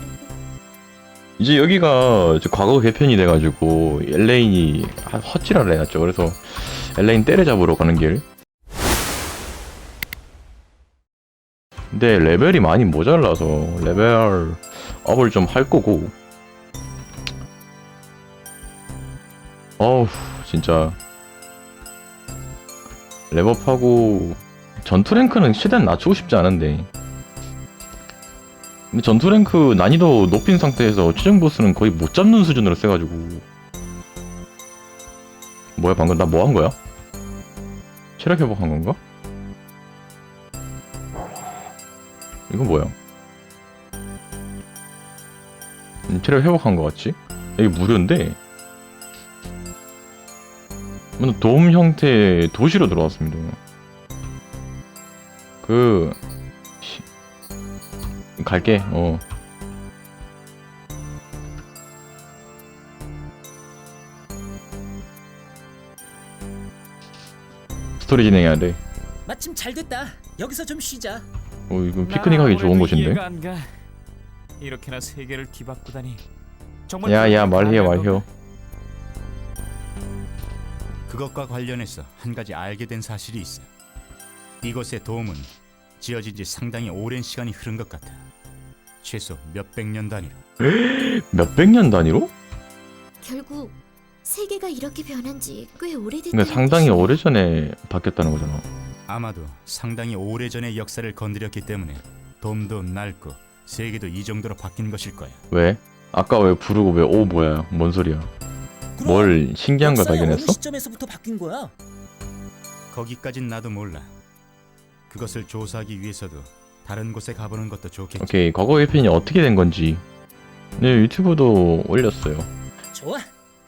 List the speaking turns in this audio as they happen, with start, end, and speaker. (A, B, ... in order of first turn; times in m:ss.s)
0:01.4-0:08.2 A
0:11.9-0:16.1 A
0:19.8-0:21.0 A
0:23.3-0:26.9 A
0:28.9-0:33.4 A
0:35.8-0:36.8 A
0:38.2-0:39.0 A
0:42.5-0:43.0 A
0:46.1-0:48.4 A
0:51.2-0:53.6 A
0:55.6-0:56.2 A
0:58.4-0:59.2 A
1:08.0-1:08.8 A
1:09.3-1:11.3 B
1:11.7-1:13.2 A
1:12.0-1:13.7 C
1:14.6-1:16.2 C
1:16.9-1:18.3 C
1:17.0-1:18.2 A
1:21.1-1:23.7 D
1:24.6-1:28.2 D
1:29.0-1:30.4 D
1:30.6-1:32.3 A
1:33.2-1:37.2 E
1:36.3-1:38.6 A
1:39.1-1:45.4 D
1:45.5-1:48.3 A
1:49.0-1:51.7 B
1:49.0-1:50.6 A
1:52.9-1:54.1 D
1:55.1-1:58.4 D
1:58.2-2:00.0 A
2:00.8-2:02.5 A
2:02.9-2:03.3 B